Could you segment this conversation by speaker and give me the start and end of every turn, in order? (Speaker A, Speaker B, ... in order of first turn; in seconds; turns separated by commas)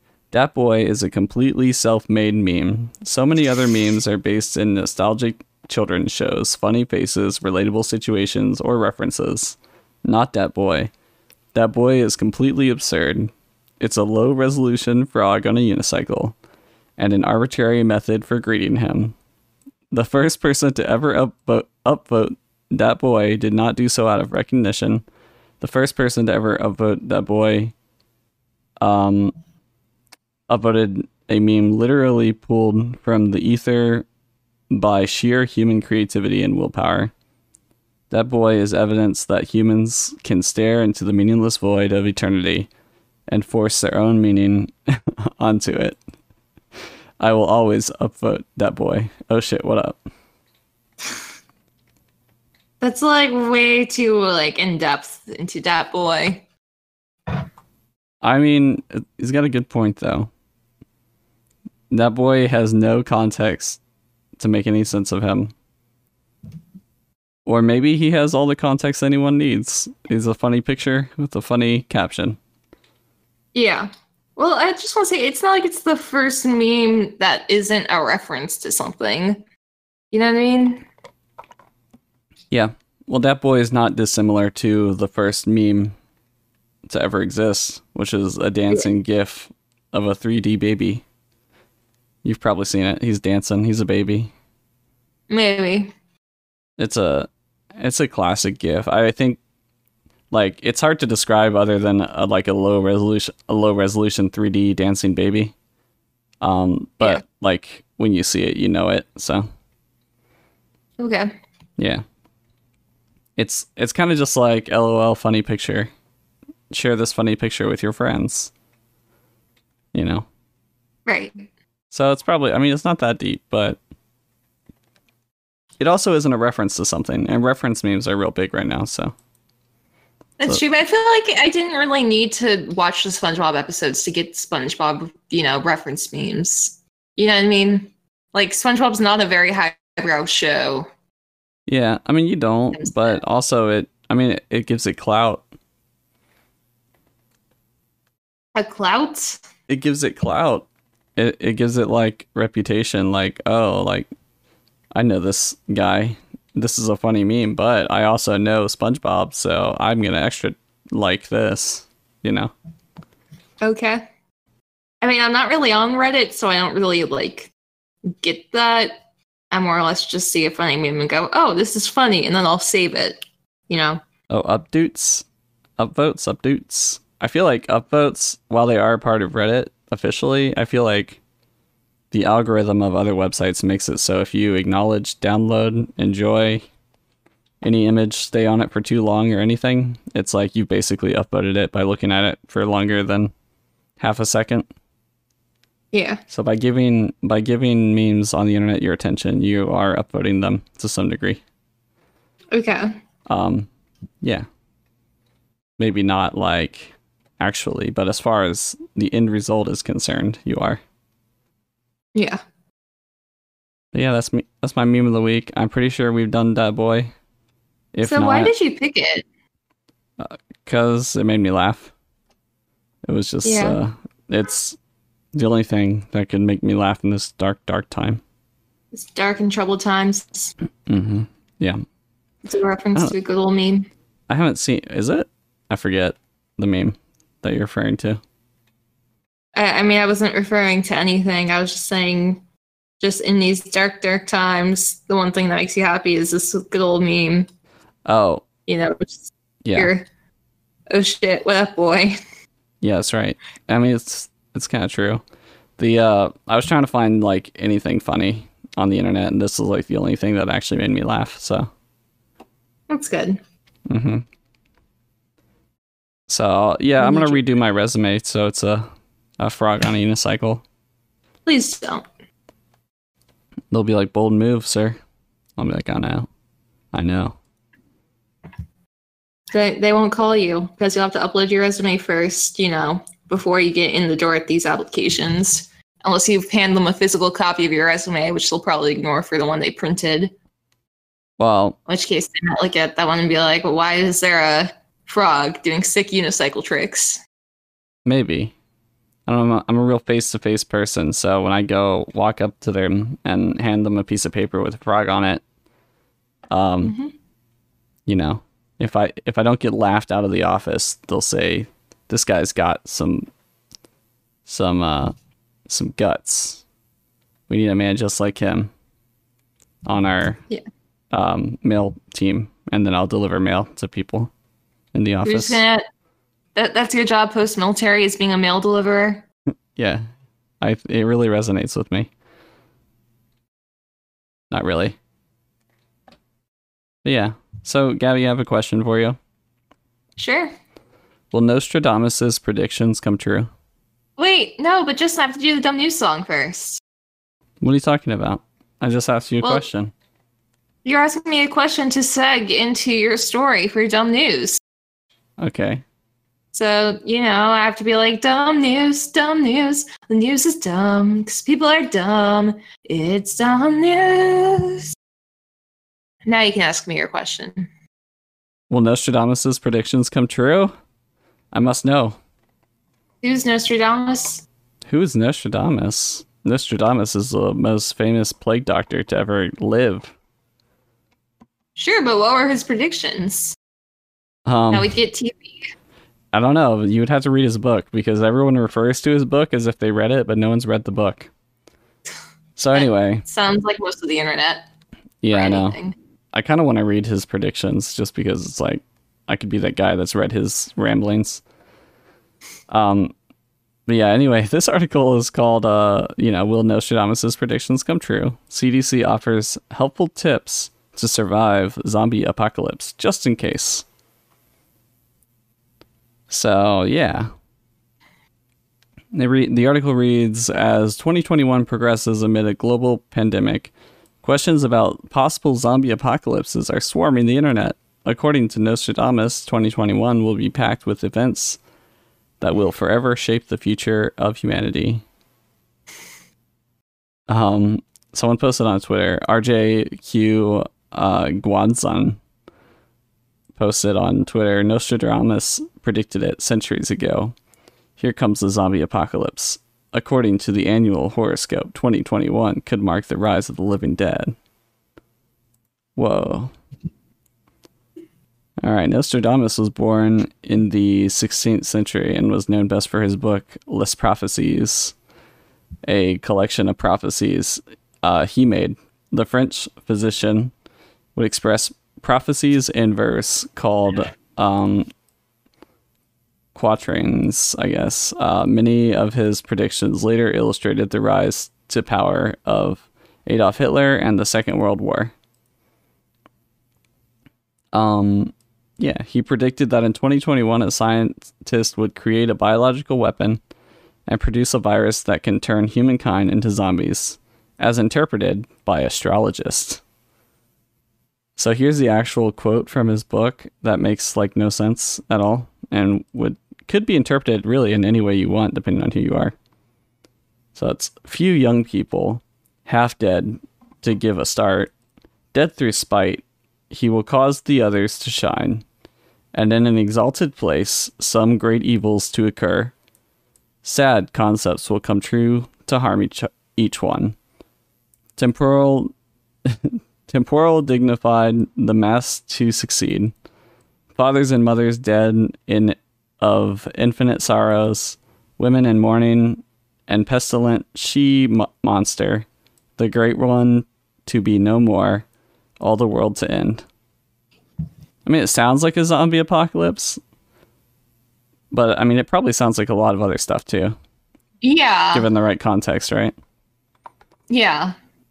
Speaker A: 0.3-10.9, Speaker A: 11.5-16.4, Speaker A: 17.0-19.1, Speaker A: 19.9-25.0, Speaker A: 25.6-27.7, Speaker A: 28.8-29.3, Speaker A: 30.5-34.1, Speaker A: 34.7-37.1, Speaker A: 38.1-42.7, Speaker A: 43.3-46.0, Speaker A: 47.2-50.0, Speaker B: 52.8-56.5, Speaker A: 58.2-60.3, Speaker A: 61.9-63.8, Speaker A: 64.4-65.5, Speaker A: 67.5-72.4, Speaker B: 73.5-79.4, Speaker B: 80.1-80.9, Speaker A: 82.5-86.0, Speaker A: 86.9-91.0, Speaker A: 92.2-94.3, Speaker B: 95.3-95.9, Speaker A: 96.8-99.4, Speaker A: 100.3-105.5, Speaker A: 106.4-109.5, Speaker B: 111.0-111.3, Speaker A: 111.8-112.0, Speaker A: 113.4-115.9, Speaker A: 116.7-118.5, Speaker A: 119.9-120.3, Speaker B: 121.1-121.5, Speaker A: 121.9-123.8, Speaker A: 125.8-129.2, Speaker B: 130.4-140.9, Speaker A: 141.7-145.4, Speaker B: 142.7-143.2, Speaker B: 148.6-149.4, Speaker A: 149.7-154.1, Speaker A: 154.9-162.5, Speaker B: 163.6-164.0, Speaker B: 165.0-167.5, Speaker B: 168.1-169.0, Speaker B: 169.5-174.0, Speaker A: 174.3-175.2, Speaker A: 175.8-181.2, Speaker A: 182.1-186.6, Speaker A: 187.6-193.3, Speaker A: 194.0-194.7, Speaker B: 195.9-196.2, Speaker A: 196.3-201.4, Speaker B: 202.5-202.9, Speaker A: 203.3-203.7, Speaker A: 205.8-210.8, Speaker B: 212.2-212.4, Speaker A: 213.9-217.1, Speaker A: 217.9-218.5, Speaker B: 218.1-219.2, Speaker A: 220.2-221.9, Speaker A: 223.1-224.8, Speaker B: 223.4-223.8, Speaker A: 225.3-228.2, Speaker B: 228.9-230.5, Speaker A: 230.9-231.8, Speaker B: 232.4-233.9, Speaker A: 234.3-238.2, Speaker B: 239.6-242.4, Speaker B: 243.0-247.5, Speaker A: 248.1-248.4, Speaker B: 248.7-250.1, Speaker A: 249.6-249.9, Speaker B: 250.9-252.2, Speaker A: 252.8-255.2, Speaker A: 255.8-261.7, Speaker B: 262.9-263.4, Speaker A: 263.9-264.3, Speaker A: 266.3-270.6, Speaker B: 267.0-267.4, Speaker B: 271.5-272.1, Speaker A: 273.7-275.0, Speaker A: 275.6-276.3, Speaker A: 276.9-277.4, Speaker B: 279.5-290.3, Speaker A: 291.4-291.8, Speaker B: 291.9-297.2, Speaker A: 298.1-298.6, Speaker A: 299.3-305.4, Speaker A: 306.5-306.9, Speaker B: 306.8-307.1, Speaker A: 308.1-313.3, Speaker A: 314.5-315.1, Speaker A: 315.7-316.6, Speaker A: 317.5-318.7, Speaker A: 319.9-320.4, Speaker A: 321.1-324.3, Speaker A: 324.9-325.6, Speaker B: 325.2-325.8, Speaker B: 326.6-329.2, Speaker A: 329.8-330.1, Speaker A: 330.6-332.1, Speaker A: 334.5-335.0, Speaker A: 337.0-339.2, Speaker B: 340.2-340.5, Speaker A: 341.3-343.5, Speaker B: 344.2-346.8, Speaker A: 347.6-349.9, Speaker B: 350.8-354.6, Speaker A: 355.4-355.8, Speaker B: 356.5-364.9, Speaker B: 366.3-367.7, Speaker A: 368.7-370.7, Speaker A: 371.5-372.2, Speaker B: 373.2-374.4, Speaker A: 374.9-380.1, Speaker B: 381.8-383.6, Speaker A: 384.5-384.9, Speaker B: 384.7-385.7, Speaker A: 386.3-391.3, Speaker A: 392.6-393.2, Speaker B: 392.8-394.7, Speaker A: 395.2-395.8, Speaker B: 395.3-395.9, Speaker A: 396.3-401.4, Speaker A: 402.7-403.1, Speaker A: 403.9-413.9, Speaker A: 416.3-417.3, Speaker A: 419.1-431.6, Speaker A: 432.4-435.0, Speaker A: 437.3-442.2, Speaker A: 443.6-447.3, Speaker A: 448.0-454.4, Speaker A: 456.0-456.6, Speaker A: 458.6-464.9, Speaker A: 465.9-470.5, Speaker A: 471.2-474.9, Speaker A: 476.5-485.1, Speaker A: 487.7-493.4, Speaker A: 494.1-499.8, Speaker A: 501.4-509.4, Speaker A: 510.6-514.7, Speaker A: 515.3-518.6, Speaker A: 519.3-522.7, Speaker A: 523.6-527.2, Speaker A: 528.2-528.9, Speaker A: 529.5-533.1, Speaker A: 534.0-542.3, Speaker A: 542.8-545.0, Speaker A: 545.6-546.6, Speaker A: 548.0-550.0, Speaker A: 551.5-553.8, Speaker B: 554.4-555.1, Speaker A: 554.9-556.1, Speaker B: 557.3-557.8